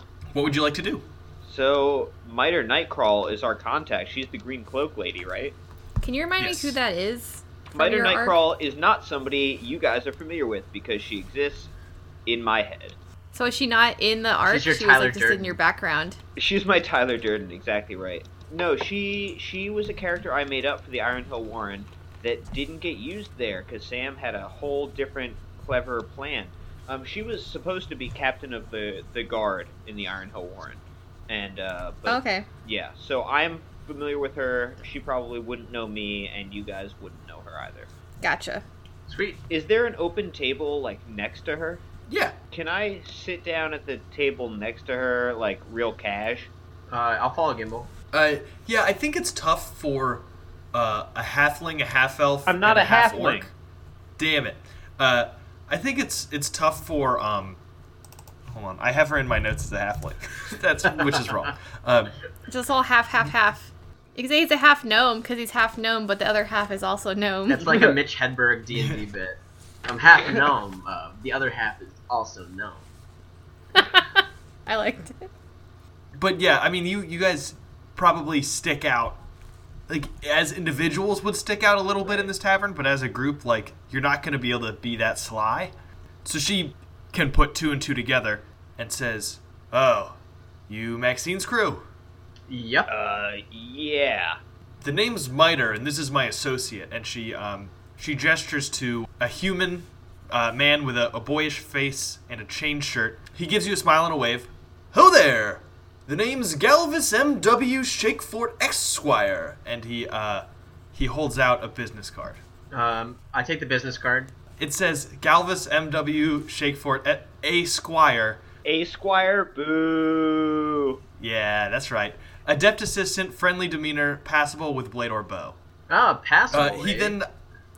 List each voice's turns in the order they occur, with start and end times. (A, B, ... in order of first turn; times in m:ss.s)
0:00.3-0:01.1 A
0:01.4-0:05.6 B
0:06.0-0:08.4 C
0:06.4-0:06.8 A
0:07.7-0:11.7 B
0:12.2-0:13.0 B
0:13.3-0:16.2 C
0:14.5-0:15.6 D
0:16.4-0:37.9 B
0:32.1-0:32.5 C
0:38.2-0:38.6 C
0:39.1-0:39.4 D
0:39.5-0:41.8 B
0:42.1-0:42.4 A
0:42.5-0:46.5 B
0:46.9-0:47.9 D
0:48.1-0:53.5 A
0:52.5-0:53.5 B
0:54.2-0:57.6 A
0:58.5-1:02.1 A
1:02.5-1:07.7 C
1:07.5-1:12.9 D
1:08.7-1:09.0 A
1:13.8-1:15.3 C
1:16.1-1:19.2 A
1:19.9-1:30.2 A
1:30.7-1:31.8 A
1:32.5-1:32.9 D
1:32.9-1:34.4 B
1:34.8-1:52.4 A
1:52.7-1:54.3 D
1:54.6-1:58.4 A
1:58.6-2:01.0 B
2:01.2-2:05.6 A
2:05.9-2:07.2 D
2:06.5-2:07.3 A